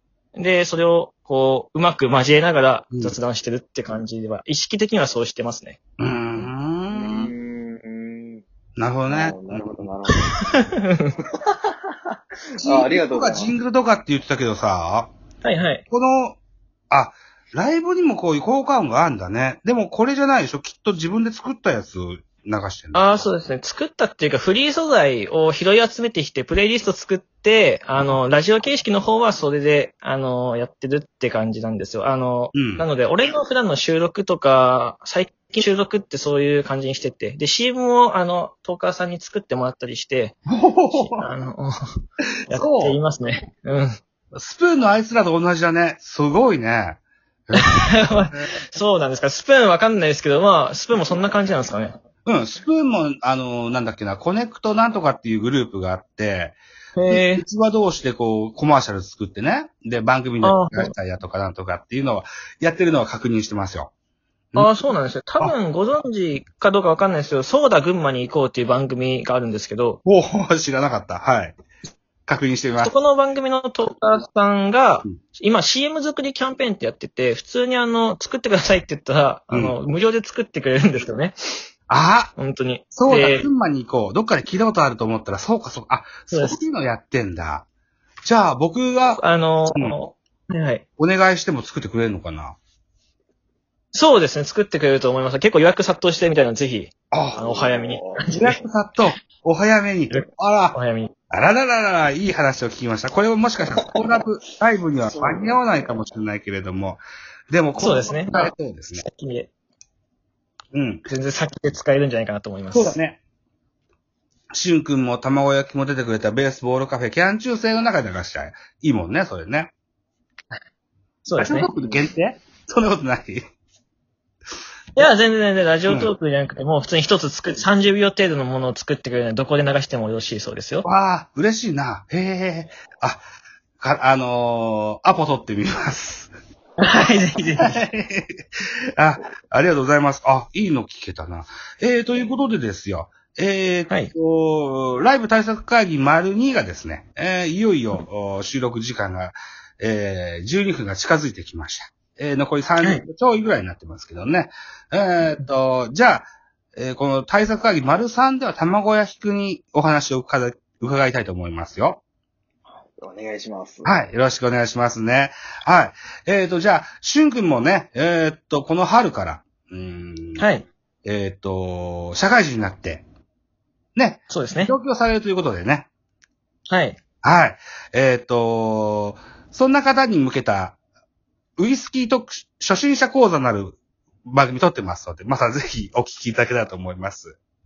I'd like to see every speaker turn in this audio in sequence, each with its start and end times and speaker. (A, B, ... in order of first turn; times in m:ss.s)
0:00.4-0:05.8 A
0:02.9-0:03.2 B
0:06.0-0:07.3 B
0:06.9-0:08.4 C
0:08.8-0:09.9 B
0:09.1-0:10.7 C
0:10.3-0:11.2 A
0:11.4-0:13.5 C
0:12.6-0:15.1 B
0:15.4-0:15.8 A
0:15.9-0:16.4 B
0:16.9-0:23.3 B
0:22.9-0:44.0 A
0:32.6-0:32.9 B
0:40.5-0:41.3 B
0:42.5-0:43.0 B
0:44.4-0:48.5 B
0:47.6-0:52.0 A
0:52.2-1:03.9 B
0:57.0-0:57.4 A
1:00.4-1:00.9 A
1:04.6-1:10.0 A
1:10.1-1:11.6 B
1:12.3-1:13.0 B
1:12.8-1:21.4 A
1:19.5-1:19.8 B
1:21.9-1:22.3 B
1:22.4-1:23.5 A
1:22.9-1:27.7 B
1:26.3-1:26.6 A
1:28.2-1:29.2 B
1:29.2-1:30.8 A
1:31.0-1:32.6 B
1:33.9-1:38.6 A
1:37.1-1:37.4 B
1:37.4-1:38.2 C
1:38.4-1:40.8 B
1:40.1-1:41.1 A
1:41.3-1:49.0 B
1:45.1-1:45.9 C
1:47.8-1:48.2 C
1:47.8-1:49.5 A
1:50.7-1:51.0 B
1:51.1-1:53.0 A
1:52.7-1:53.2 B
1:54.5-1:59.7 B
2:01.2-2:01.7 A
2:01.4-2:03.4 B
2:05.0-2:10.9 A
2:10.8-2:13.2 B
2:13.8-2:16.3 B
2:16.8-2:17.8 A
2:17.6-2:18.4 B
2:19.0-2:42.0 B
2:42.8-2:43.9 C
2:43.8-2:50.5 B
2:50.4-2:50.6 A
2:51.0-2:53.0 B
2:54.0-2:55.9 B
2:54.3-2:54.7 A
2:56.7-2:57.0 A
2:57.2-3:00.8 B
3:01.6-3:07.4 B